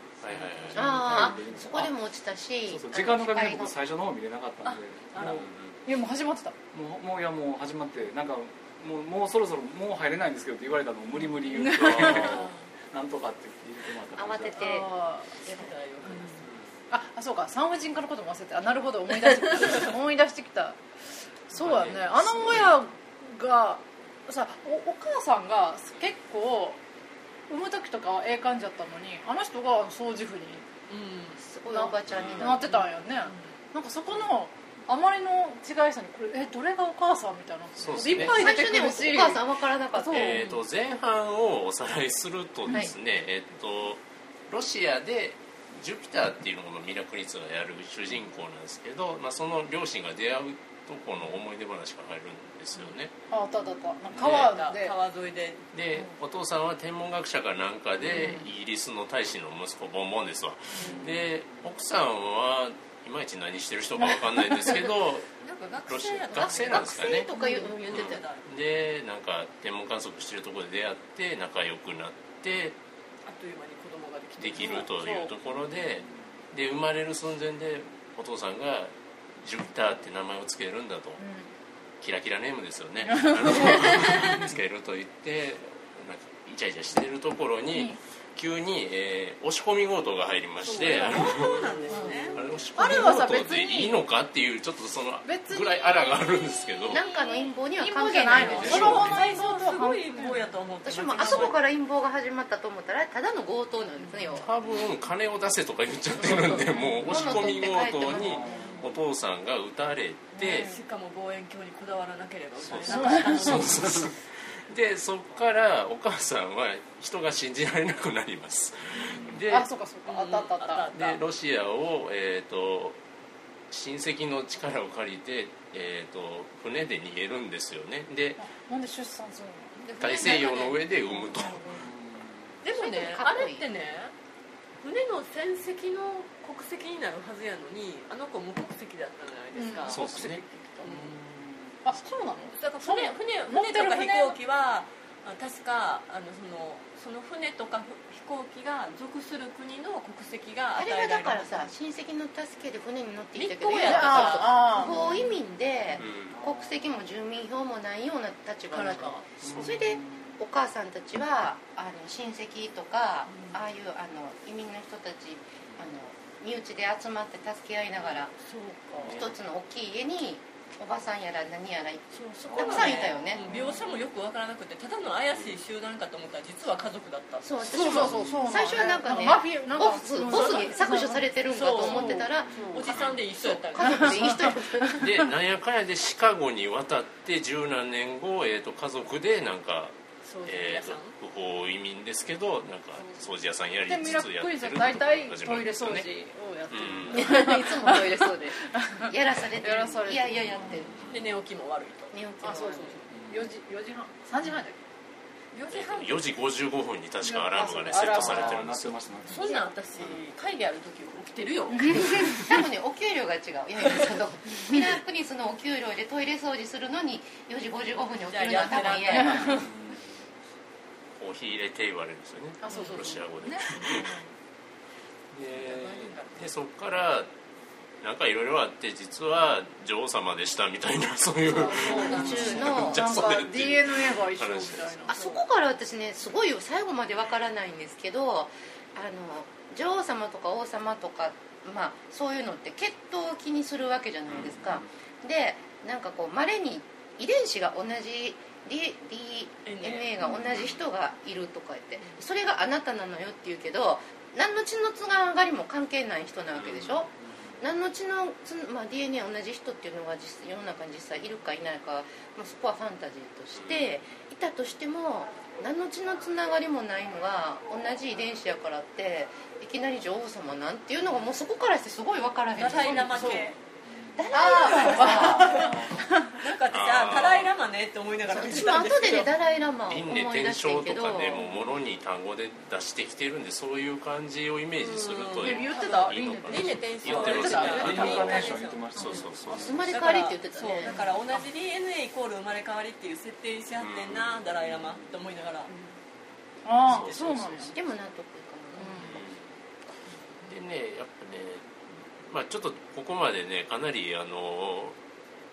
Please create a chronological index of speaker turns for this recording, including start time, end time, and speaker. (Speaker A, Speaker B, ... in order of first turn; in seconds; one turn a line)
Speaker A: 0.2-1.0
Speaker B: 0.3-0.6
Speaker C: 0.7-1.9
Speaker D: 0.7-3.7
Speaker C: 2.7-5.5
Speaker B: 5.1-5.4
Speaker E: 5.2-6.5
Speaker A: 5.2-5.8
Speaker C: 6.7-14.8
Speaker E: 11.5-12.5
Speaker B: 11.5-12.6
Speaker A: 11.7-12.4
Speaker D: 14.1-14.9
Speaker E: 14.6-15.4
Speaker B: 15.4-16.5
Speaker E: 16.1-16.4
Speaker A: 16.4-16.7
Speaker E: 16.9-20.8
Speaker E: 21.5-26.8
Speaker A: 21.6-22.7
Speaker E: 27.5-30.7
Speaker B: 30.9-31.4
Speaker D: 31.4-32.8
Speaker E: 31.7-40.5
Speaker A: 32.1-32.6
Speaker B: 32.7-33.5
Speaker A: 37.8-38.5
Speaker B: 37.8-38.1
Speaker D: 38.1-40.4
Speaker A: 40.1-53.1
Speaker B: 40.1-40.6
Speaker D: 42.7-42.9
Speaker E: 53.3-55.0
Speaker A: 54.1-54.5
Speaker B: 54.1-55.6
Speaker A: 55.7-65.3
Speaker E: 58.1-58.4
Speaker B: 58.1-58.4
Speaker E: 60.8-61.1
Speaker B: 60.8-61.0
Speaker B: 65.4-68.5
Speaker A: 65.9-67.3
Speaker D: 66.3-68.2
Speaker E: 67.4-67.7
Speaker A: 67.9-72.8
Speaker B: 73.2-74.9
Speaker A: 74.4-81.2
Speaker E: 74.7-75.3
Speaker C: 75.5-76.2
Speaker E: 81.2-81.5
Speaker A: 82.0-97.0
Speaker E: 83.1-84.5
Speaker E: 87.7-88.0
Speaker B: 90.6-92.5
Speaker E: 91.9-94.0
Speaker E: 95.2-96.4
Speaker D: 96.9-99.2
Speaker B: 96.9-97.5
Speaker E: 97.8-100.5
Speaker B: 98.3-101.6
Speaker A: 98.5-99.1
Speaker D: 100.8-104.5
Speaker A: 104.4-110.7
Speaker D: 106.2-108.8
Speaker C: 108.1-108.8
Speaker E: 110.3-110.8
Speaker B: 110.4-113.8
Speaker A: 112.6-119.7
Speaker E: 112.9-113.6
Speaker E: 119.1-120.9
Speaker B: 120.0-121.2
Speaker A: 120.9-123.0
Speaker A: 123.7-128.4
Speaker E: 128.4-129.8
Speaker B: 129.8-131.8
Speaker A: 130.0-131.6
Speaker C: 131.8-132.5
Speaker B: 132.6-134.1
Speaker D: 132.7-133.7
Speaker B: 134.8-141.1
Speaker E: 139.5-140.4
Speaker A: 139.9-140.4
Speaker C: 140.8-141.8
Speaker E: 141.8-144.4
Speaker B: 142.5-151.7
Speaker D: 150.7-168.3
Speaker B: 153.3-155.4
Speaker E: 153.8-155.1
Speaker A: 156.0-156.4
Speaker C: 156.3-156.9
Speaker B: 158.7-159.3
Speaker C: 159.4-160.3
Speaker B: 163.3-163.6
Speaker B: 168.3-169.2
Speaker D: 169.0-173.5
Speaker B: 172.1-177.6
Speaker C: 172.5-173.9
Speaker D: 177.4-185.1
Speaker E: 177.7-181.2
Speaker C: 177.9-178.7
Speaker B: 180.2-180.8
Speaker B: 181.5-184.5
Speaker E: 181.8-182.9
Speaker C: 182.1-182.8
Speaker E: 183.8-185.3
Speaker A: 185.0-196.1
Speaker B: 190.2-191.1
Speaker E: 193.8-200.6
Speaker A: 196.7-197.4
Speaker D: 197.1-200.9
Speaker C: 200.6-201.1
Speaker B: 201.1-202.1
Speaker D: 202.1-203.0
Speaker E: 202.4-204.8
Speaker C: 203.1-203.4
Speaker B: 205.5-206.3
Speaker A: 205.7-209.0
Speaker E: 207.2-208.6
Speaker C: 207.8-209.4
Speaker B: 209.3-212.5
Speaker E: 211.7-212.3
Speaker D: 211.8-219.6
Speaker B: 218.2-219.7
Speaker E: 218.9-219.6
Speaker C: 219.5-220.1
Speaker A: 221.2-224.1
Speaker E: 222.6-224.3
Speaker B: 222.7-223.2
Speaker A: 225.3-227.3
Speaker B: 225.5-226.5
Speaker A: 228.0-235.0
Speaker E: 231.5-235.2
Speaker D: 231.6-233.4
Speaker B: 231.8-232.5
Speaker D: 235.1-273.5
Speaker B: 235.1-235.4
Speaker A: 244.3-244.6
Speaker B: 249.6-250.1
Speaker A: 250.4-250.8
Speaker A: 256.5-257.0
Speaker A: 263.5-263.9
Speaker B: 272.5-273.6
Speaker C: 273.9-274.2
Speaker D: 274.1-275.7
Speaker E: 274.3-276.4
Speaker B: 274.4-275.8
Speaker C: 275.5-275.9
Speaker B: 276.4-279.3
Speaker A: 276.7-277.5
Speaker D: 278.3-281.4
Speaker A: 279.9-288.4
Speaker B: 284.8-289.1
Speaker E: 285.4-289.2
Speaker C: 287.1-289.9
Speaker A: 288.9-289.8
Speaker D: 289.5-291.0
Speaker B: 289.8-295.7
Speaker E: 290.7-291.1
Speaker A: 293.8-294.7
Speaker E: 296.6-297.8
Speaker A: 296.9-297.5
Speaker D: 297.7-299.2
Speaker A: 299.0-299.5
Speaker A: 300.5-301.7
Speaker A: 302.2-305.0